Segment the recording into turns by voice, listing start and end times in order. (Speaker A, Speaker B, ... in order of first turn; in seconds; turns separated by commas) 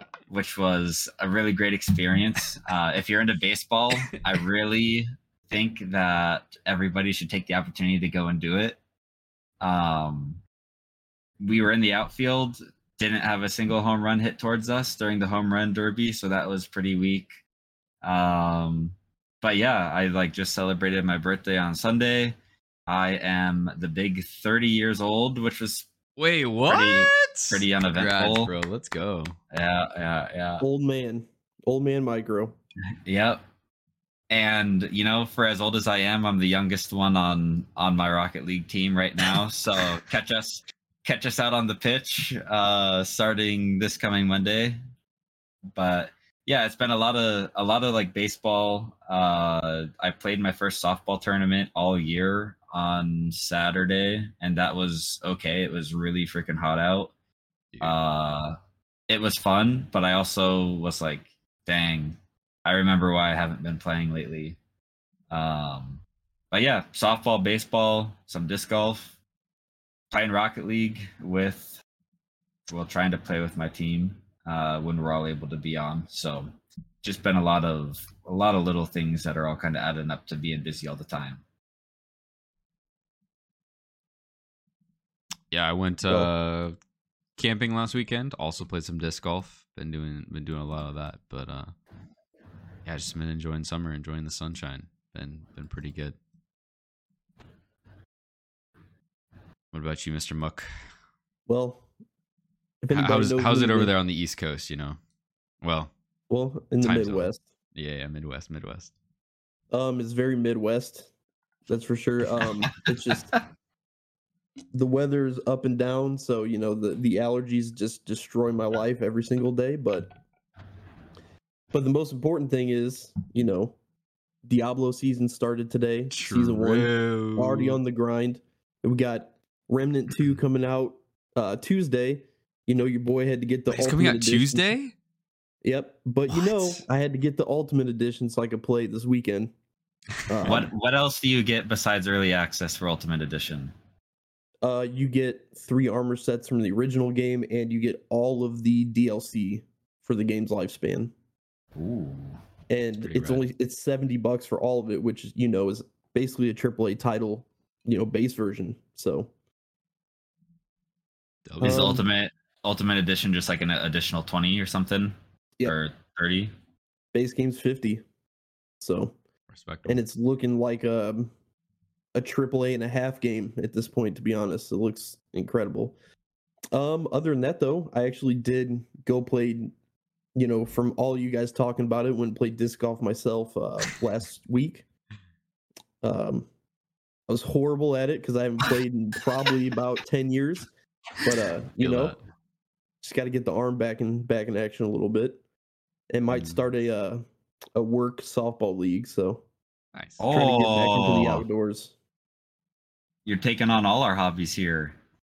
Speaker A: 0.3-8.8, Speaker A: 9.6-10.4, Speaker A: 11.4-17.4, Speaker A: 18.0-22.4, Speaker A: 22.9-25.9, Speaker B: 26.2-29.4, Speaker A: 26.7-28.5, Speaker A: 29.5-30.6, Speaker C: 30.6-32.6, Speaker A: 33.1-33.4, Speaker A: 34.3-44.8, Speaker A: 45.7-57.1, Speaker A: 57.8-58.6, Speaker A: 59.1-64.6, Speaker A: 65.3-69.2, Speaker A: 70.1-71.8, Speaker A: 72.7-81.4, Speaker B: 85.5-86.8, Speaker B: 87.4-91.7, Speaker B: 92.8-96.2, Speaker B: 99.7-100.7, Speaker C: 101.5-101.9, Speaker C: 102.8-103.9, Speaker B: 102.9-105.0, Speaker B: 105.6-105.9, Speaker C: 106.3-107.4, Speaker B: 106.8-108.9, Speaker C: 109.7-111.1, Speaker C: 111.7-113.4, Speaker C: 114.7-120.1, Speaker C: 121.7-123.8, Speaker C: 124.4-134.7, Speaker B: 126.1-127.8, Speaker B: 133.7-134.9, Speaker C: 135.6-139.5, Speaker B: 136.3-136.8, Speaker C: 140.3-140.7, Speaker A: 140.4-143.7, Speaker C: 144.6-151.1, Speaker A: 151.8-152.4, Speaker C: 152.7-159.3, Speaker B: 153.0-153.4, Speaker B: 161.5-162.0, Speaker C: 161.6-162.0, Speaker A: 161.6-166.5, Speaker C: 167.1-168.1, Speaker C: 168.8-169.2, Speaker B: 169.5-170.0, Speaker C: 169.8-171.3, Speaker C: 172.2-175.9, Speaker C: 176.7-179.7, Speaker C: 180.3-184.8, Speaker C: 186.0-186.5, Speaker C: 187.3-190.7, Speaker C: 191.2-192.2, Speaker B: 191.8-192.2, Speaker C: 193.0-195.4, Speaker C: 196.1-197.2, Speaker B: 196.3-196.6, Speaker C: 197.8-199.4, Speaker A: 200.2-201.4, Speaker C: 200.3-201.9, Speaker A: 203.3-204.9